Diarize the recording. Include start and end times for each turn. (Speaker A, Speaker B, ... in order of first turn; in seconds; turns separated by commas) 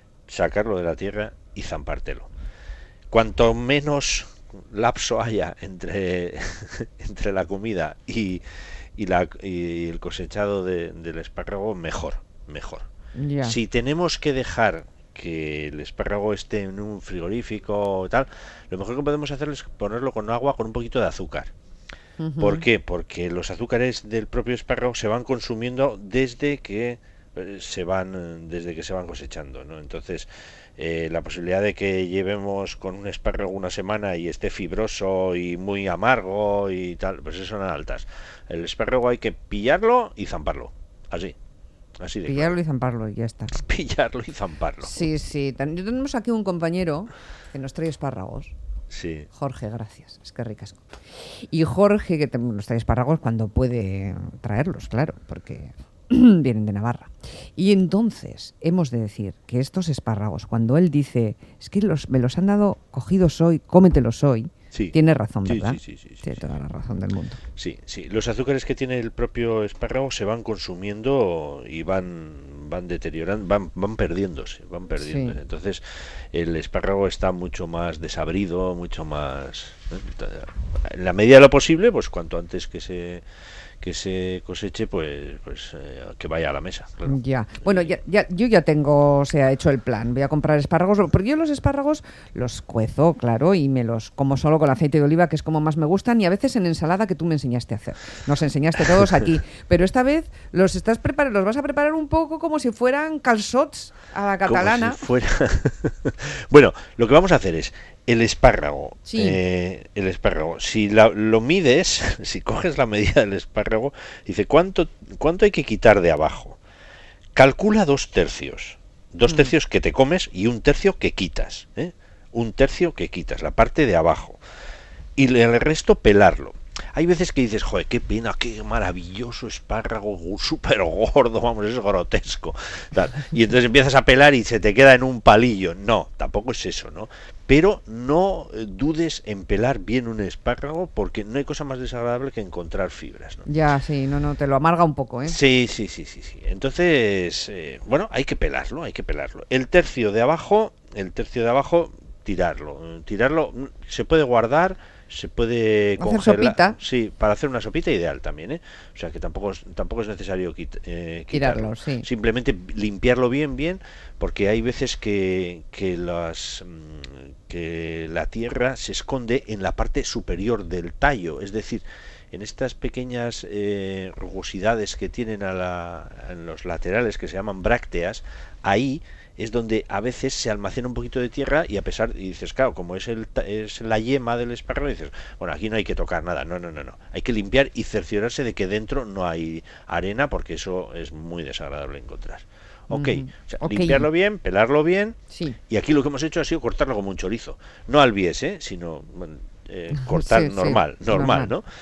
Speaker A: 0.3-2.3, Speaker A: 3.1-8.4, Speaker A: 9.0-12.9, Speaker B: 13.2-13.6, Speaker A: 13.4-21.5, Speaker B: 22.2-22.6, Speaker A: 22.4-41.4, Speaker A: 42.0-42.6, Speaker B: 42.3-43.5, Speaker A: 43.5-45.1, Speaker B: 44.8-48.5, Speaker A: 48.9-49.3, Speaker B: 49.3-67.4, Speaker A: 64.7-66.4, Speaker A: 67.6-83.2, Speaker B: 75.0-75.4, Speaker A: 83.8-88.0, Speaker B: 87.1-105.0, Speaker A: 104.5-116.6, Speaker B: 109.1-109.4, Speaker A: 117.3-124.4, Speaker A: 125.2-143.5, Speaker B: 143.5-145.4, Speaker A: 145.3-201.7, Speaker B: 156.0-156.8, Speaker B: 161.3-162.1, Speaker B: 192.9-194.1, Speaker B: 195.3-195.6, Speaker B: 200.0-201.5